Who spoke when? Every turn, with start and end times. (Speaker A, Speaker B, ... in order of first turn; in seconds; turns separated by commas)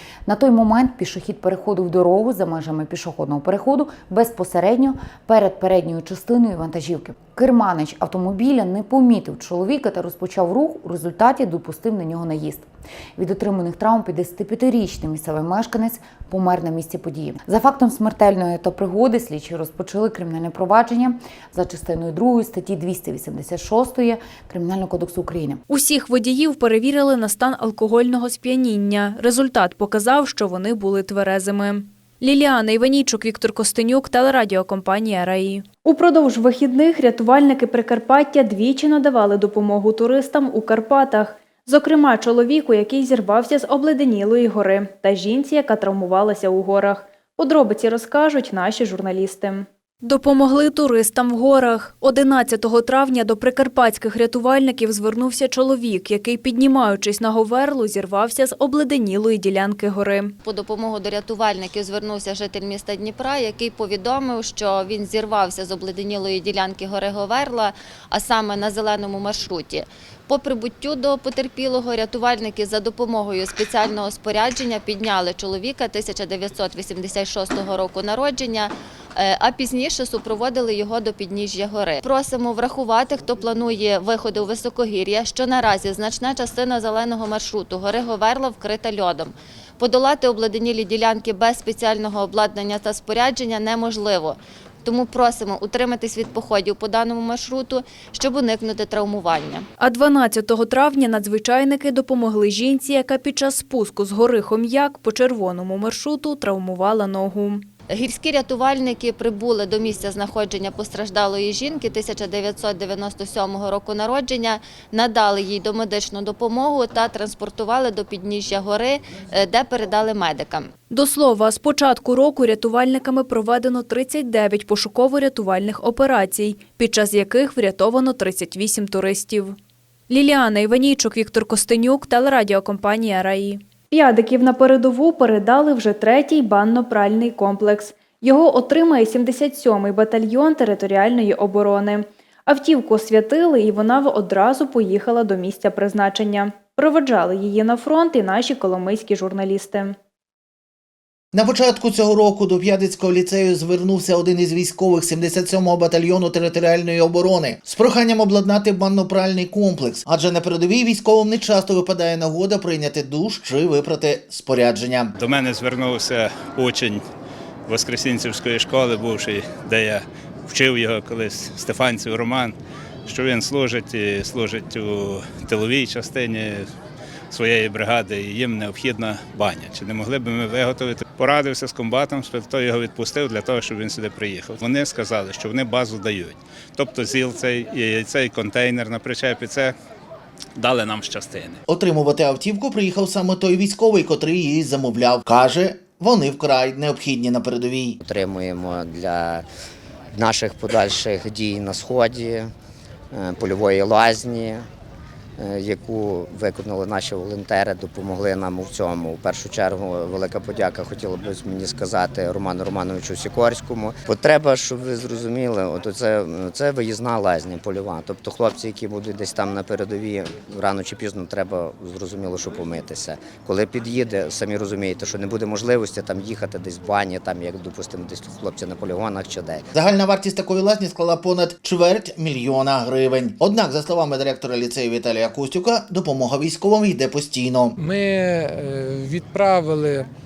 Speaker A: 0.2-25.6, Speaker B: 25.7-60.3, Speaker C: 60.4-99.7, Speaker B: 99.8-107.7, Speaker C: 107.9-120.7, Speaker B: 120.9-129.6, Speaker B: 130.1-149.9, Speaker D: 151.3-165.1, Speaker E: 165.2-167.0, Speaker E: 167.7-172.5, Speaker E: 173.1-176.7, Speaker E: 177.3-189.7, Speaker E: 190.6-191.6, Speaker D: 191.7-198.0, Speaker F: 198.0-199.4, Speaker F: 200.1-202.5, Speaker F: 203.1-204.7, Speaker F: 205.4-229.7, Speaker D: 229.7-237.8, Speaker G: 237.8-240.1